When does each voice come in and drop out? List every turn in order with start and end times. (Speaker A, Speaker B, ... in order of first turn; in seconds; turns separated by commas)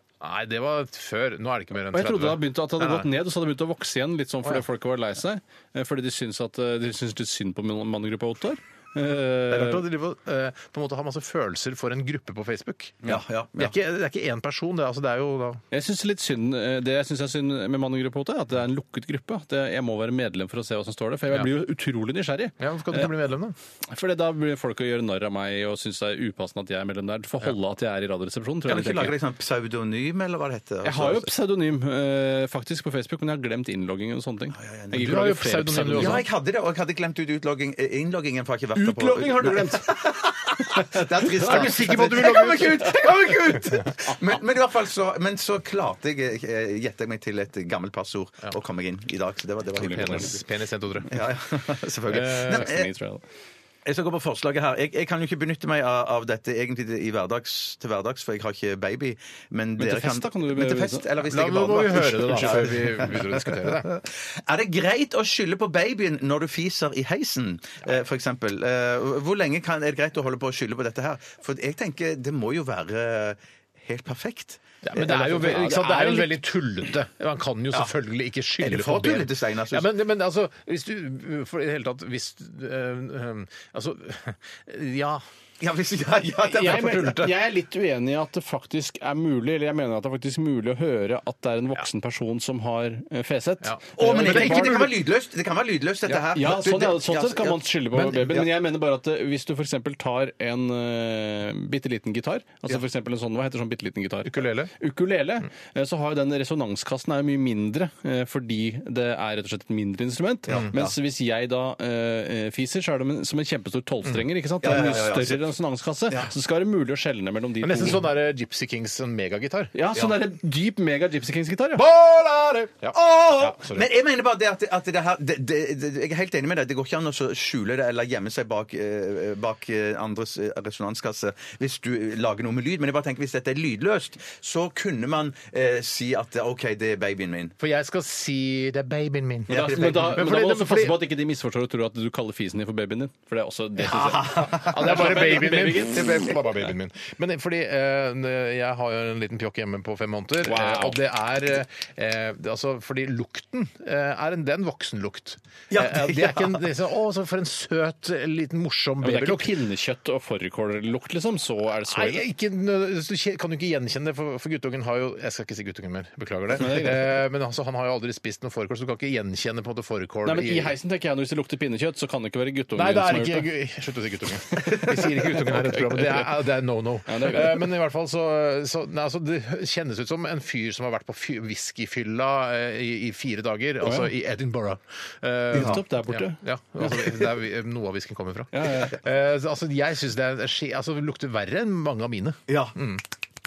Speaker A: 0.2-3.1, Speaker B: 1.9-9.8, Speaker A: 9.5-15.6, Speaker C: 13.1-13.7, Speaker B: 15.7-23.1, Speaker A: 22.6-23.6, Speaker B: 23.9-29.2, Speaker C: 28.7-31.3, Speaker B: 30.8-36.2, Speaker C: 34.5-35.1, Speaker A: 34.9-36.2, Speaker C: 35.9-50.4, Speaker B: 38.8-40.0, Speaker B: 40.8-42.6, Speaker A: 41.4-43.4, Speaker B: 49.8-50.4, Speaker A: 49.8-51.2, Speaker C: 51.1-52.9, Speaker A: 52.1-52.7, Speaker B: 52.5-53.2, Speaker C: 53.9-76.3, Speaker B: 59.8-61.1, Speaker A: 61.2-63.9, Speaker A: 74.8-85.2, Speaker B: 75.4-76.1, Speaker C: 78.6-79.9, Speaker C: 85.6-87.2, Speaker B: 86.5-94.8, Speaker A: 86.6-87.3, Speaker A: 93.6-95.0, Speaker C: 94.0-98.5, Speaker B: 96.3-118.0, Speaker A: 104.2-104.7, Speaker C: 110.5-111.0, Speaker C: 114.6-115.5, Speaker A: 117.6-119.7, Speaker B: 119.7-121.8, Speaker A: 121.8-123.9, Speaker C: 122.9-137.6, Speaker A: 137.6-141.1, Speaker C: 139.5-140.2, Speaker B: 139.5-146.1, Speaker A: 143.9-159.5, Speaker C: 143.9-145.3, Speaker C: 145.9-146.3, Speaker B: 150.5-151.0, Speaker C: 155.7-156.6, Speaker B: 159.0-162.2, Speaker A: 161.8-170.7, Speaker B: 166.6-167.1, Speaker B: 170.2-173.5, Speaker A: 172.8-193.0, Speaker B: 175.6-176.3, Speaker B: 177.1-177.7, Speaker B: 183.8-184.1, Speaker B: 185.5-187.2, Speaker C: 185.5-185.8, Speaker B: 188.5-189.0, Speaker C: 192.5-192.8